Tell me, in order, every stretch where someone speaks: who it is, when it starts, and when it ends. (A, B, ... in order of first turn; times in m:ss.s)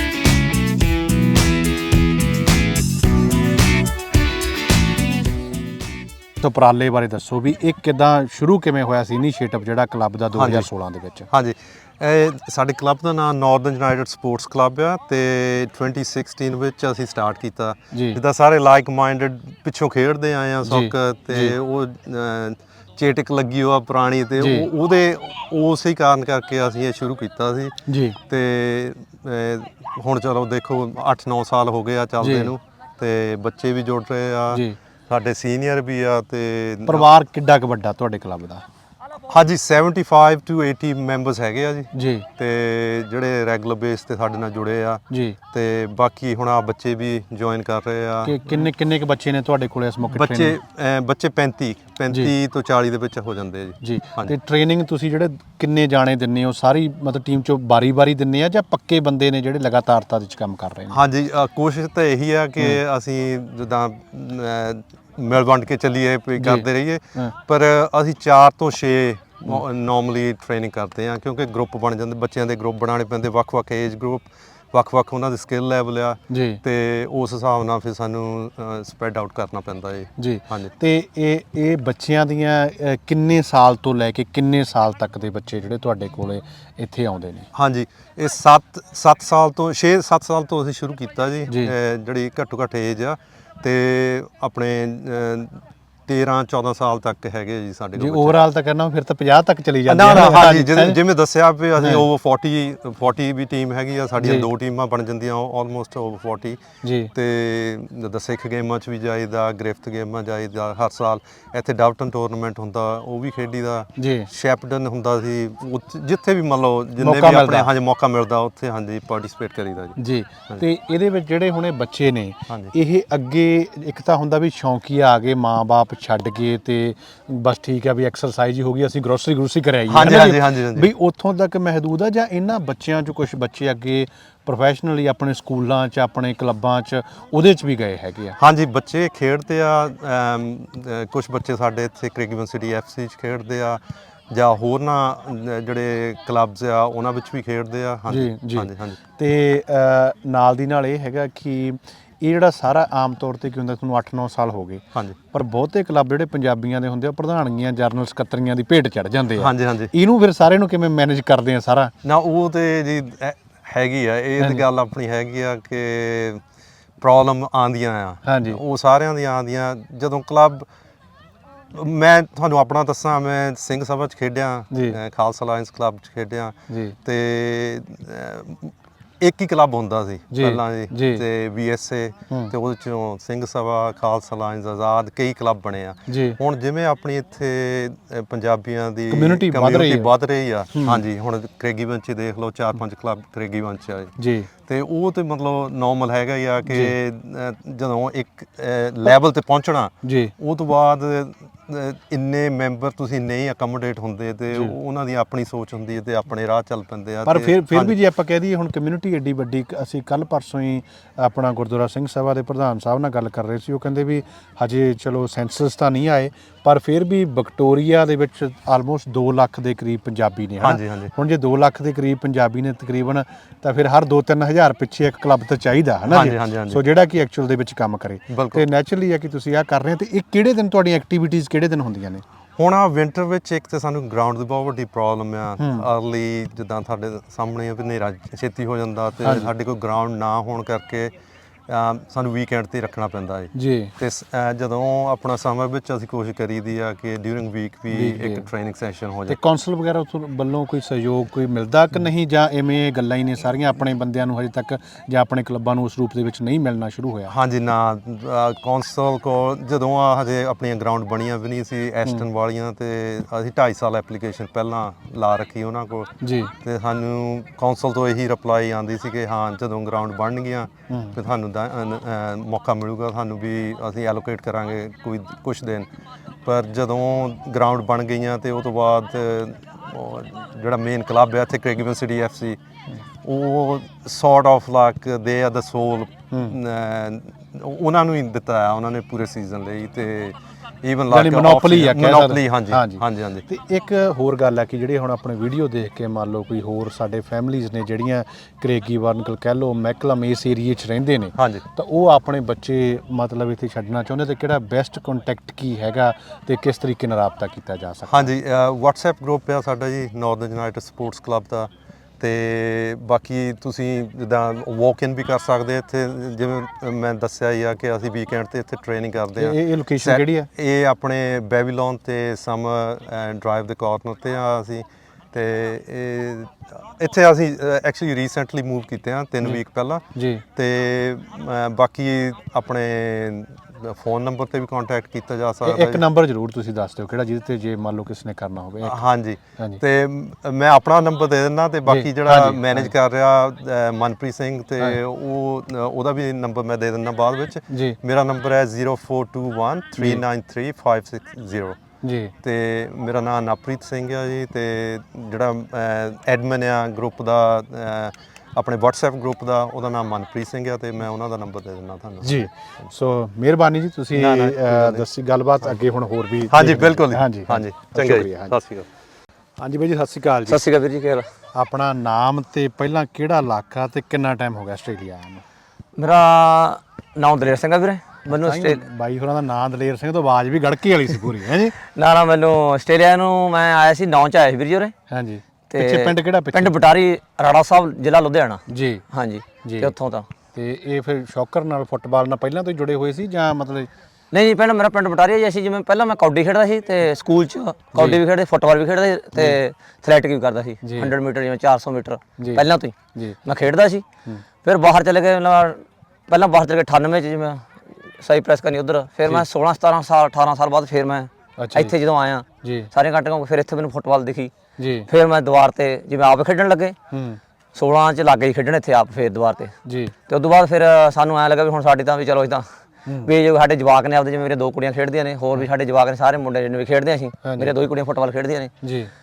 0:06.4-0:11.3 A
0:10.3-0:10.7 B
0:11.3-0:37.1 B
0:17.9-0:18.2 A
0:20.6-0:21.6 A
0:24.4-0:24.7 A
0:27.9-0:28.2 A
0:32.2-0:32.5 A
0:34.5-0:34.8 A
0:36.9-0:38.6 A
0:39.3-0:48.7 B
0:41.9-0:42.3 A
0:45.1-0:45.4 A
0:48.2-0:50.6 A
0:50.1-0:54.4 B
0:52.1-0:52.4 A
0:53.8-1:01.0 A
1:00.9-1:20.7 B
1:06.4-1:07.3 A
1:16.3-1:16.6 A
1:20.2-1:27.5 A
1:27.5-1:38.4 B
1:31.5-1:31.8 A
1:38.0-1:41.0 A
1:39.9-1:46.6 B
1:41.8-1:42.0 A
1:44.2-1:44.5 A
1:46.8-1:47.1 A
1:47.1-2:00.6 B
1:54.0-1:54.3 A
1:57.0-1:57.7 A
2:00.0-2:18.4 A
2:09.9-2:10.9 B
2:18.4-2:29.0 B
2:28.1-2:41.9 A
2:39.4-2:39.9 B
2:42.0-2:46.4 B
2:44.4-2:44.6 A
2:47.0-2:50.7 B
2:48.2-2:48.6 A
2:51.7-3:14.1 B
2:54.7-2:55.0 A
2:56.7-2:57.0 A
3:00.3-3:01.2 A
3:06.1-3:06.4 A
3:09.1-3:10.1 A
3:10.7-3:11.0 A
3:14.2-3:14.5 A
3:14.7-3:28.0 B
3:16.7-3:17.0 A
3:20.0-3:20.3 A
3:27.3-3:52.2 A
3:40.6-3:41.1 B
3:46.1-3:46.8 B
3:48.3-3:48.7 B
3:52.6-4:01.1 B
3:55.6-3:55.9 A
3:59.2-3:59.5 A
4:01.7-4:09.4 B
4:03.6-4:03.9 A
4:07.9-4:08.5 A
4:09.3-4:17.3 A
4:17.3-4:35.9 B
4:26.2-4:26.5 A
4:30.9-4:31.2 A
4:36.4-4:42.6 B
4:43.2-4:53.4 B
4:51.1-5:08.3 A
5:01.4-5:01.6 B
5:08.1-5:30.0 B
5:19.4-5:20.5 A
5:30.2-5:30.4 A
5:30.6-5:36.0 B
5:35.6-5:39.1 A
5:38.8-5:51.8 B
5:41.9-5:42.9 A
5:47.7-5:48.0 A
5:50.0-5:50.2 A
5:52.0-5:52.3 A
5:52.4-6:02.9 B
6:02.2-6:08.6 A
6:04.1-6:05.1 B
6:06.5-6:08.9 B
6:09.6-6:10.6 A
6:10.5-6:11.3 C
6:11.5-6:15.4 A
6:16.0-6:18.8 C
6:18.3-6:21.7 A
6:21.8-6:24.9 C
6:25.1-6:26.8 A
6:25.7-6:30.3 C
6:28.7-6:29.0 A
6:29.6-6:29.9 A
6:30.5-6:33.9 A
6:34.3-6:44.0 C
6:37.9-6:38.2 A
6:40.8-6:41.2 A
6:42.4-6:43.4 A
6:44.6-6:54.5 C
6:51.6-6:52.0 A
6:52.6-6:52.9 A
6:54.8-6:55.1 A
6:55.1-6:57.0 C
6:57.1-6:57.4 A
6:57.8-6:59.7 C
6:59.8-7:00.1 A
7:00.3-7:02.7 C
7:03.1-7:03.3 A
7:03.2-7:08.7 C
7:07.4-7:07.8 A
7:08.8-7:09.1 A